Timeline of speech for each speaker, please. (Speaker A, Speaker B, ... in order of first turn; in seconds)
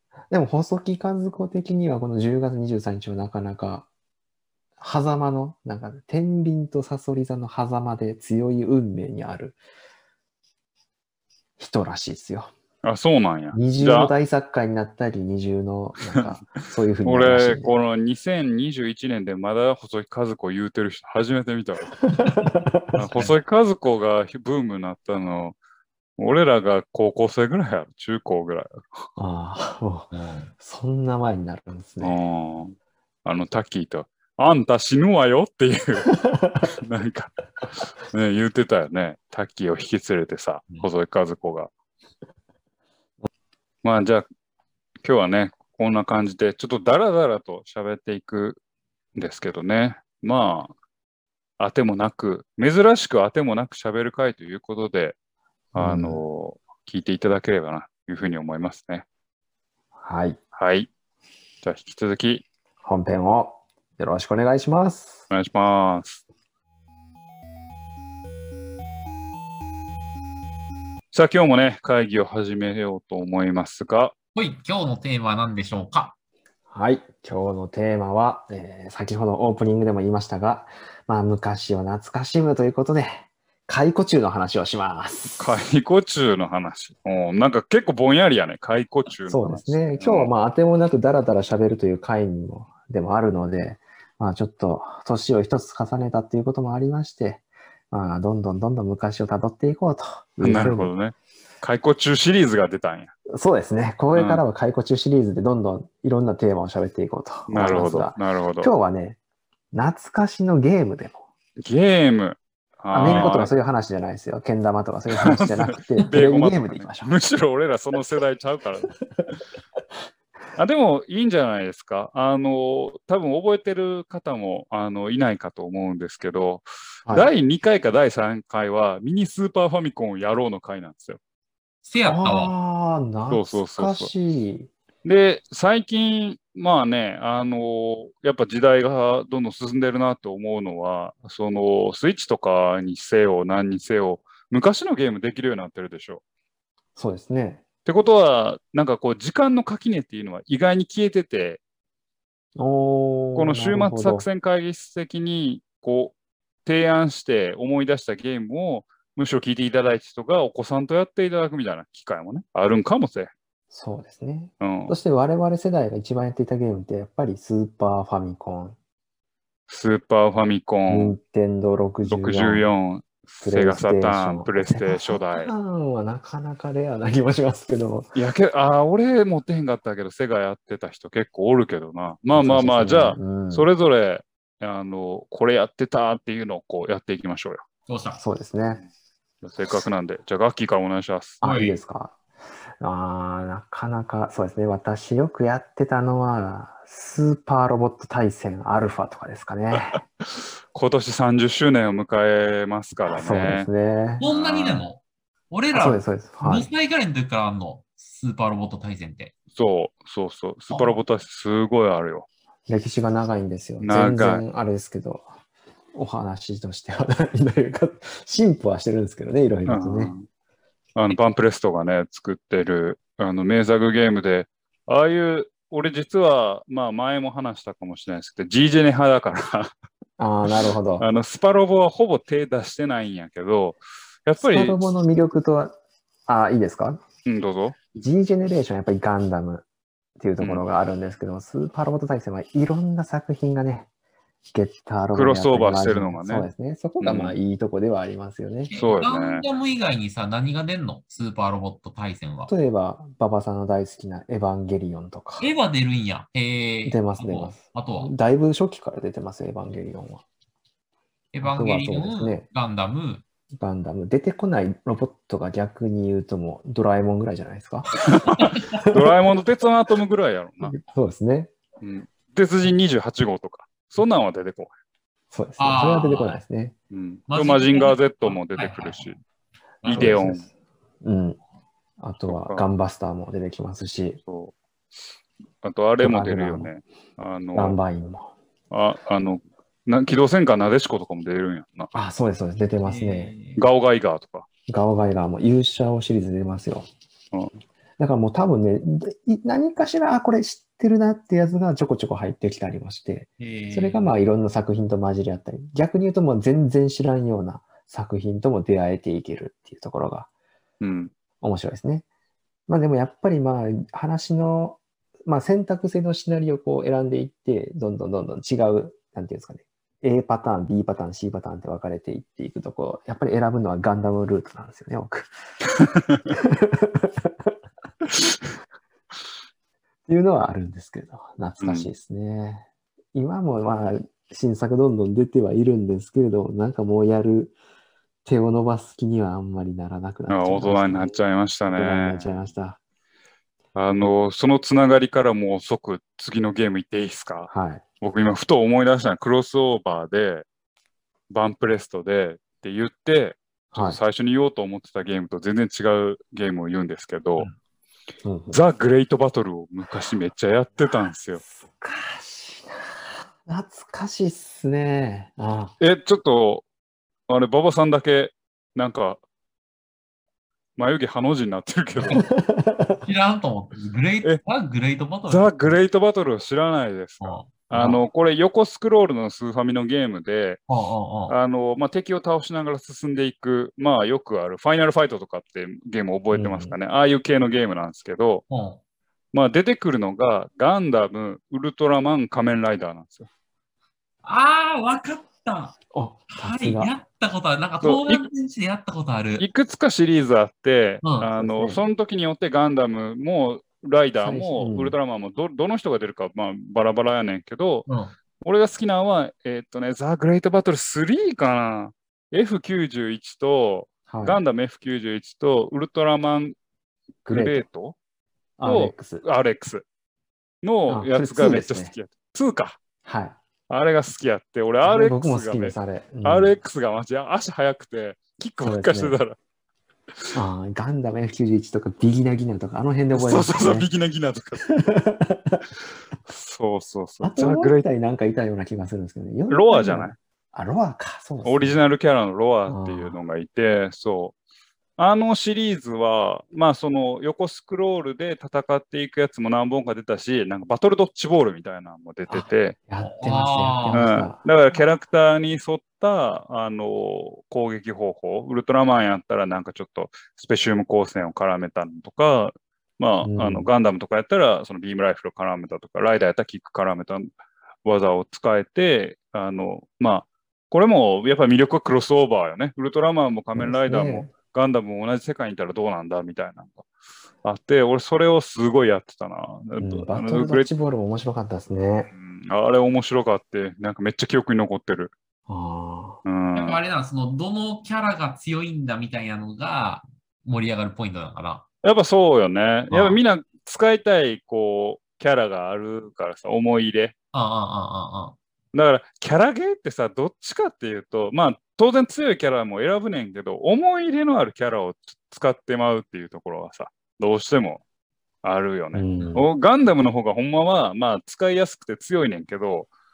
Speaker A: 0.3-3.9, 4.8-9.6, 11.6-12.5, 13.5-17.7, 22.0-23.3, 29.2-32.1, 36.1-36.7, 55.7-56.2, 60.0-60.4, 62.8-65.2, 76.7-85.5, 89.3-100.9, 103.3-109.2, 109.7-111.2, 112.9-117.1, 127.0-127.3, 132.1-134.7, 146.9-147.6, 152.6-154.2, 163.7-168.8, 170.9-172.7, 173.4-178.1, 182.3-183.7, 188.2-188.8, 191.4-192.2, 192.8-200.0, 203.0-204.2, 205.7-206.7, 212.7-215.2, 215.9-220.1, 230.2-231.1, 234.4-235.8, 236.3-237.0, 237.9-239.6, 240.2-243.9, 244.5-248.7, 252.5-255.4, 256.9-260.2, 261.4-262.4, 263.5-268.1, 268.7-269.2, 270.6-271.5, 275.3-276.7, 280.0-280.4, 281.0-281.4, 282.0-284.2, 286.0-286.7, 287.5-288.3, 291.9-293.3, 294.7-296.9, 298.0-310.3, 311.4-312.1, 312.7-325.3, 326.3-327.5, 330.1-337.5, 338.2-341.2, 341.7-342.8, 347.5-347.8, 353.7-354.0, 358.2-358.6, 361.4-365.7, 372.1-373.0, 377.7-378.0, 386.3-386.7, 395.9-396.9, 401.4-401.8, 404.2-404.9, 414.1-414.4, 417.2-417.6, 418.6-419.2, 420.9-421.9, 423.0-423.4, 424.8-426.5, 428.6-429.2, 430.3-433.9, 434.7-435.6, 437.2-441.8, 442.7-443.2, 452.3-454.4, 463.2-463.7, 473.6-474.3, 479.8-482.1, 485.5-486.2, 508.9-509.4
Speaker B: 12.8-14.1, 17.0-21.9, 22.9-25.6, 26.2-29.1, 32.0-36.1, 36.6-41.7, 43.8-44.2, 45.0-48.6, 49.1-50.7, 51.6-55.1, 55.7-59.0, 60.5-60.9, 61.6-62.4, 65.3-66.2, 71.1-74.1, 85.4-90.3, 100.4-103.1, 104.1-104.4, 107.5-108.7, 111.6-113.5, 115.1-119.0, 120.5-131.2, 133.3-134.1, 135.0-146.2, 147.8-151.6, 153.3-163.3, 164.6-164.9, 169.7-171.2, 172.1-175.5, 178.1-187.7, 189.4-191.4, 200.7-203.7, 204.2-204.9, 209.5-212.3, 213.8-214.4, 219.7-220.2, 220.9-229.7, 231.0-234.8, 237.2-237.8, 240.4-240.6, 245.1-246.5, 247.0-247.4, 248.7-249.4, 268.1-270.7, 271.8-274.7, 276.9-279.2, 279.8-280.4, 282.3-282.6, 284.2-284.5, 285.6-287.8, 288.7-291.9, 293.6-294.5, 310.8-311.1, 325.8-326.3, 331.6-331.9, 340.3-342.4, 343.7-347.5, 348.0-350.4, 351.3-357.5, 358.5-361.4, 365.8-366.6, 367.3-369.2, 370.8-372.2, 375.3-380.6, 381.3-388.4, 389.3-393.3, 397.8-398.3, 399.4-407.9, 408.4-416.6, 417.3-417.9, 418.6-419.8, 420.6-422.8, 423.7-429.4, 433.1-434.8, 436.3-437.8, 439.5-440.1, 441.4-444.3, 445.0-452.8, 453.9-467.3, 467.8-476.8, 477.4-480.7, 482.1-485.1, 486.2-486.8, 491.8-497.1, 498.7-507.8, 508.4-512.9
Speaker C: 30.1-30.5, 74.3-76.2, 131.8-132.5, 187.9-188.2, 191.4-191.8, 204.2-209.3, 210.7-211.0, 248.7-252.5, 255.4-258.1, 261.3-263.2, 268.3-268.8, 275.6-276.4, 277.3-279.1, 279.8-280.2, 292.8-293.6, 303.4-304.1, 373.0-375.8, 377.2-377.5, 380.7-381.4, 388.5-388.8, 394.2-395.8, 396.3-399.4, 401.0-401.3, 407.9-408.1, 453.0-454.1, 486.5-491.6, 492.9-493.2, 497.3-498.4